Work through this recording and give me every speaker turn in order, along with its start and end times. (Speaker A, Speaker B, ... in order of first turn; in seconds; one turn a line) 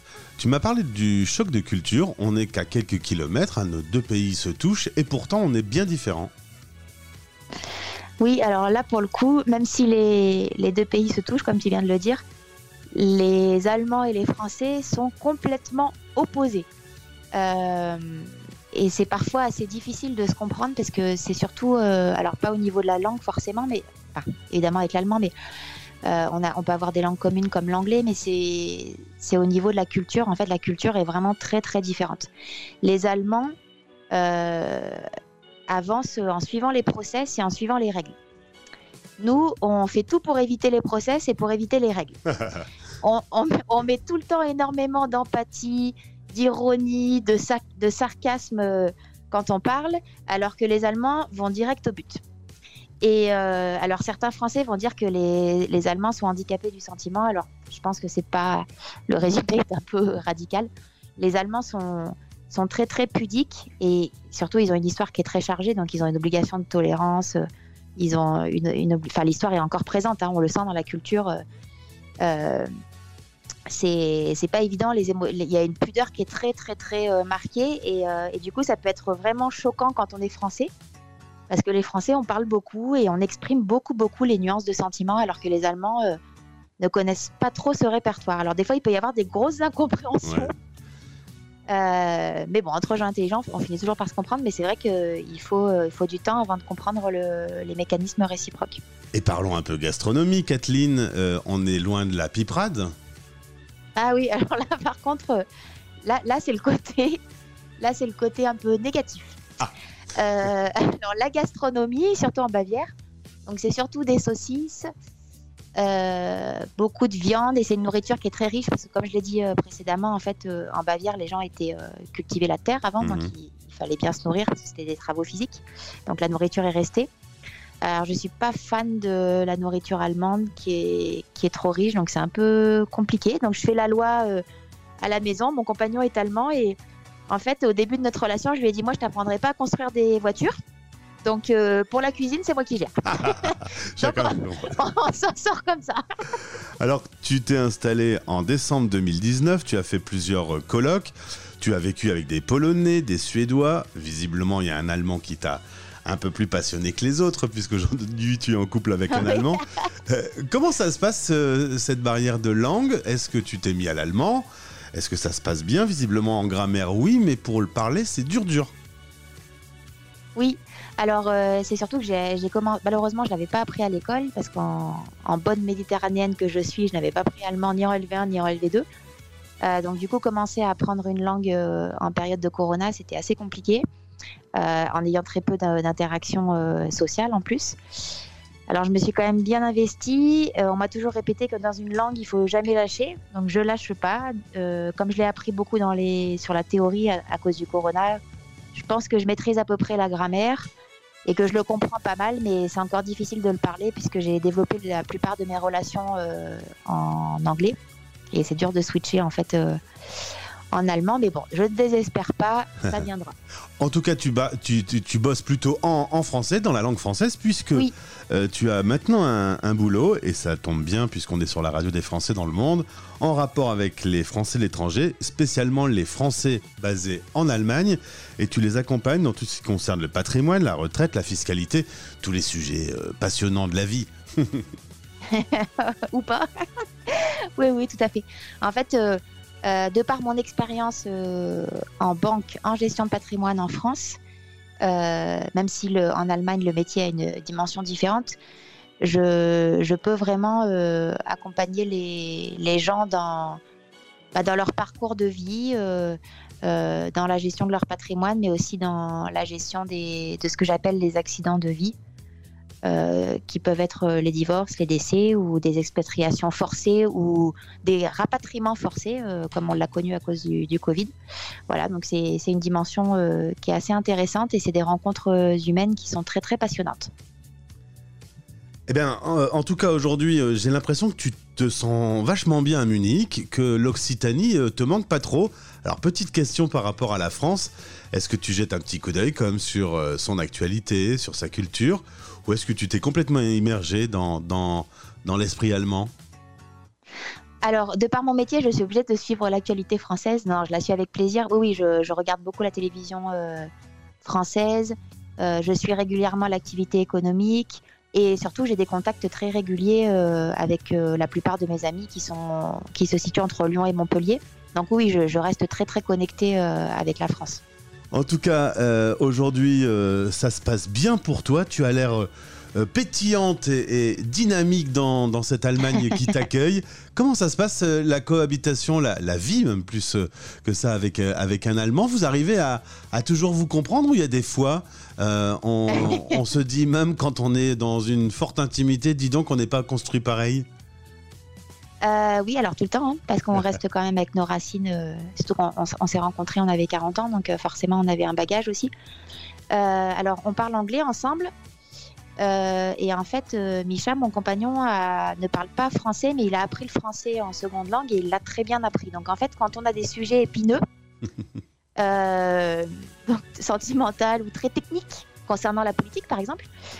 Speaker A: 0.4-6.3
Speaker B: 8.2-12.2
Speaker B: 12.9-16.7
Speaker B: 17.3-25.3
Speaker B: 26.0-32.3
Speaker B: 32.8-33.5
Speaker B: 34.1-35.0
Speaker B: 35.7-38.1
Speaker B: 39.2-42.2
Speaker B: 43.0-52.2
Speaker B: 53.0-67.4
Speaker B: 68.0-71.4
Speaker B: 72.2-72.7
Speaker B: 73.7-80.7
Speaker B: 81.5-86.2
Speaker B: 86.8-90.5
Speaker A: 90.2-90.5
Speaker B: 91.7-98.8
Speaker A: 99.1-102.9
Speaker B: 104.0-105.4
Speaker B: 106.0-107.2
Speaker B: 107.8-109.4
Speaker B: 110.1-112.9
Speaker B: 113.5-114.9
Speaker B: 115.8-127.1
Speaker A: 123.0-123.3
Speaker B: 127.8-134.4
Speaker B: 135.0-140.5
Speaker B: 141.2-146.0
Speaker A: 143.2-144.8
Speaker A: 146.8-168.7
Speaker B: 159.1-159.8
Speaker B: 170.3-178.8
Speaker B: 179.6-183.8
Speaker B: 184.6-187.8
Speaker B: 188.7-198.2
Speaker B: 198.7-200.7
Speaker B: 201.2-207.7
Speaker B: 208.3-209.8
Speaker B: 210.7-213.3
Speaker A: 213.8-234.6
Speaker B: 235.3-244.2
Speaker B: 244.8-248.3
Speaker B: 249.0-253.6
Speaker B: 254.3-261.9
Speaker B: 262.8-271.1
Speaker B: 271.7-277.1
Speaker A: 278.9-296.1
Speaker B: 297.6-303.7
Speaker B: 304.2-317.6
Speaker A: 318.1-340.6
Speaker B: 335.9-336.4
Speaker B: 342.0-348.9
Speaker B: 349.7-351.5
Speaker B: 352.4-360.8
Speaker B: 362.0-366.7